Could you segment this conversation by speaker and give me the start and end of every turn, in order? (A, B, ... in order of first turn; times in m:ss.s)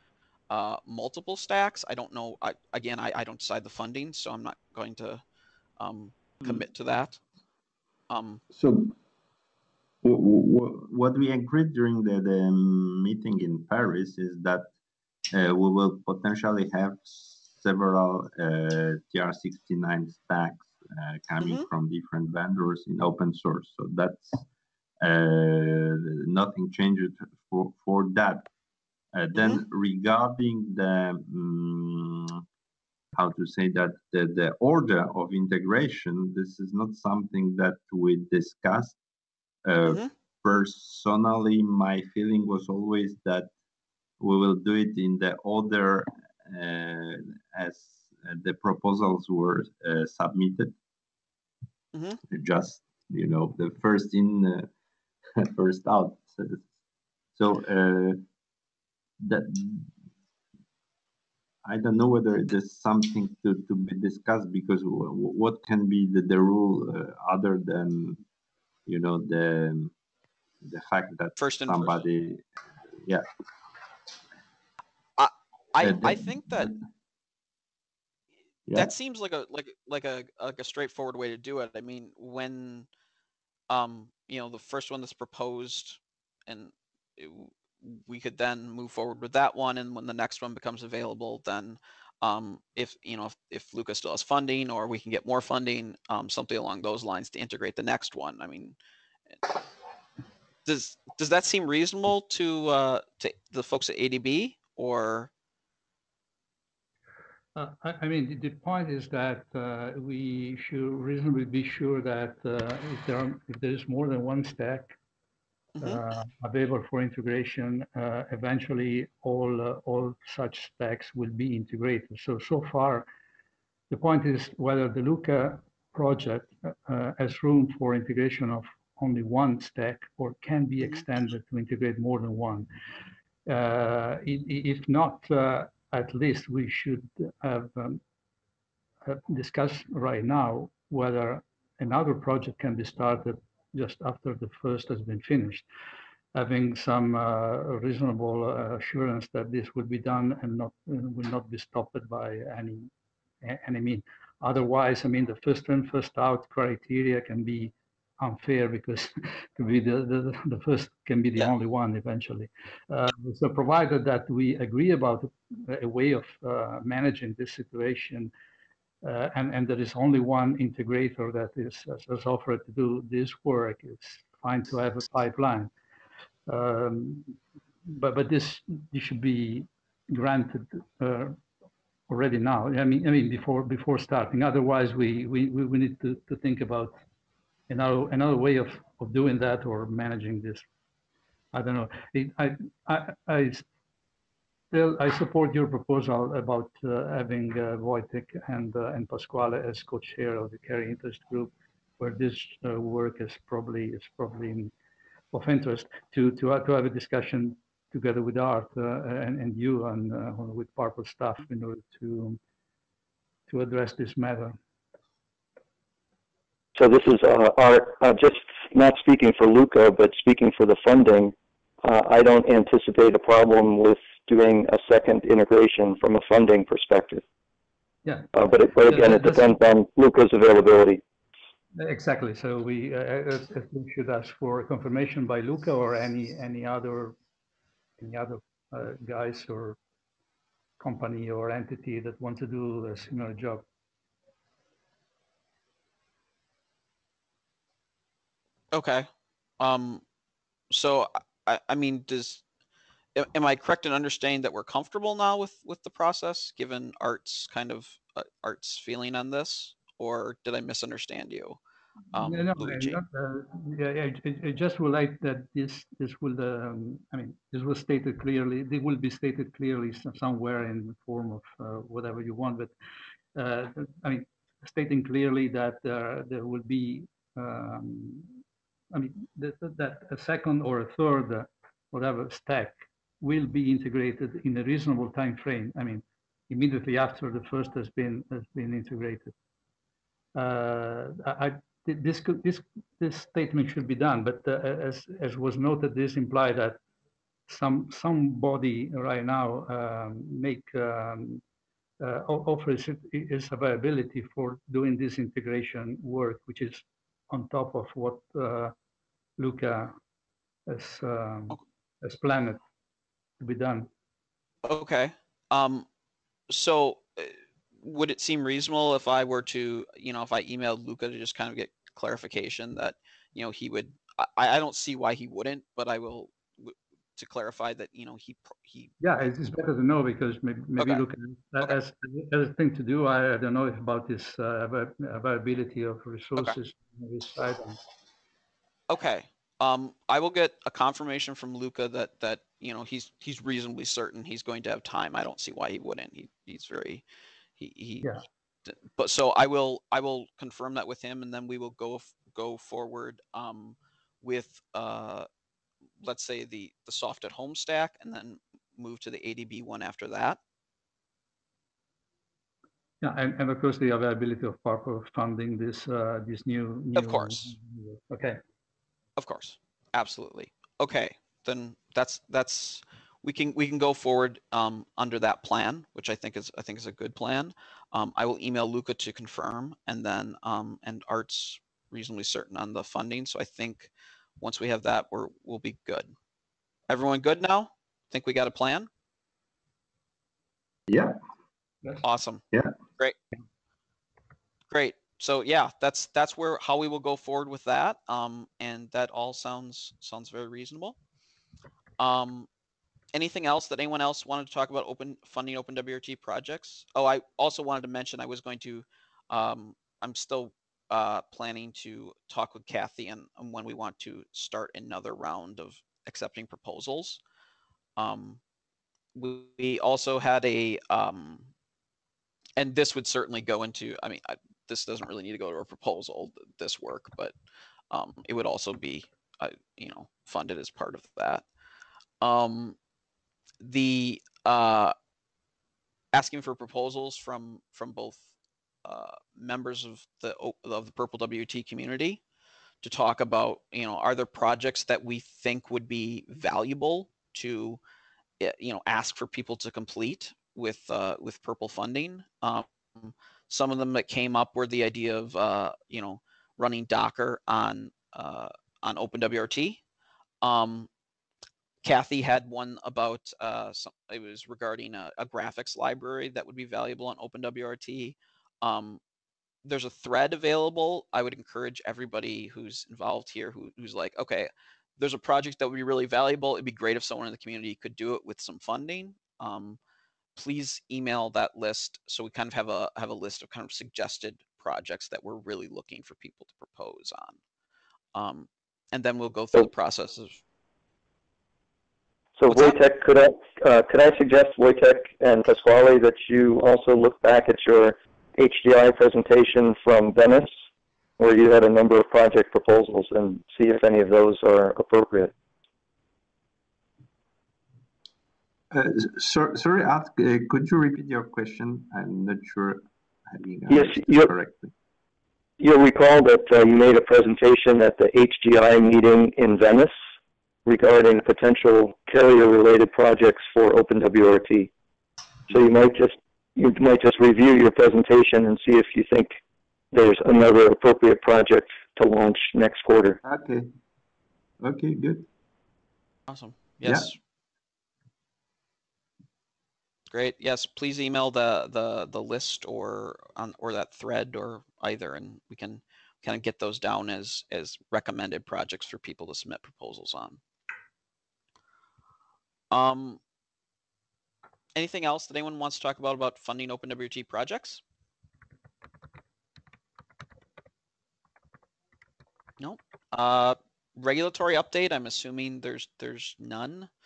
0:00.5-0:05.2 A
0:05.8-0:07.2 A
0:08.1-0:08.4 A
0:08.5-0:08.9 B
0:10.0-0:14.7 B
0:15.3-0:24.4 B
0:21.4-0:21.7 A
0:25.0-0:28.5 B
0:29.1-0:32.4 B
0:33.1-0:39.0 B
0:39.6-0:43.5 B
0:44.2-0:50.7 B
0:51.9-0:52.2 A
0:52.3-0:54.7 B
0:55.4-0:56.6 B
0:57.4-0:58.2 B
0:59.2-0:59.9 B
1:01.6-1:08.2 B
1:08.8-1:09.9 B
1:10.6-1:12.4 B
1:11.4-1:12.0 A
1:15.2-1:16.7 A
1:15.8-1:16.8 B
1:18.7-1:18.9 B
1:18.7-1:22.9 A
1:23.7-1:38.8 A
1:40.6-1:45.3 A
1:47.5-1:54.9 C
1:55.8-1:56.0 A
1:55.8-2:03.1 C
2:03.9-2:12.7 C
2:13.5-2:18.0 C
2:19.0-2:25.6 C
2:26.3-2:32.9 C
2:33.4-2:48.3 C
2:49.0-2:55.7 C
2:56.5-3:01.4 C
3:02.1-3:06.9 C
3:07.7-3:10.6 C
3:11.5-3:13.6 C
3:14.7-3:24.7 C
3:25.3-3:32.4 C
3:33.5-3:34.6 C
3:36.8-3:47.2 D
3:48.0-3:49.6 C
3:48.3-3:51.0 D
3:51.7-3:57.2 C
3:58.0-3:59.8 C
4:00.8-4:03.6 C
4:08.7-4:09.1 A
4:09.6-4:10.0 A
4:10.7-4:12.4 A
4:13.1-4:21.6 A
4:22.1-4:23.0 A
4:22.1-4:32.7 C
4:33.3-4:38.4 C
4:38.9-4:49.3 C
4:50.3-4:56.8 C
4:57.5-5:01.4 C
5:02.0-5:08.7 C
5:09.4-5:09.9 C
5:10.7-5:12.6 C
5:13.4-5:13.9 C
5:14.6-5:15.8 A
5:16.5-5:28.9 A
5:29.0-5:37.8 C
5:30.8-5:31.0 A
5:38.9-5:47.0 A
5:47.6-5:48.1 A
5:48.6-5:55.3 A
5:56.0-6:00.4 A
6:03.0-6:08.4 C
6:06.9-6:07.5 A
6:09.2-6:26.1 A
6:26.9-6:28.9 A
6:30.9-6:31.2 B
6:32.0-6:32.4 A
6:34.7-6:41.0 A
6:42.0-6:42.5 A
6:43.1-6:57.2 A
6:58.0-6:58.4 A
6:59.1-7:01.5 A
7:02.6-7:07.3 A
7:07.9-7:11.4 A
7:12.2-7:12.8 A
7:13.6-7:14.9 A
7:16.1-7:18.3 A
7:18.8-7:22.2 A
7:22.8-7:27.8 A
7:28.4-7:39.8 A
7:40.4-7:40.9 A
7:41.8-7:49.0 A
7:49.6-7:59.8 A
8:00.4-8:07.4 A
8:08.1-8:10.4 A
8:12.4-8:20.5 D
8:12.5-8:12.8 A
8:21.2-8:25.3 D
8:28.7-8:34.7 B
8:33.7-8:34.3 D
8:35.6-8:39.9 D
8:40.6-8:44.7 D
8:45.5-8:49.3 D
8:49.9-8:53.2 D
8:53.2-8:53.7 B
8:54.6-8:55.3 B
8:56.3-8:57.2 A
8:56.8-8:57.1 B
9:00.1-9:10.4 A
9:12.7-9:13.2 A
9:14.8-9:17.8 A
9:22.6-9:26.9 A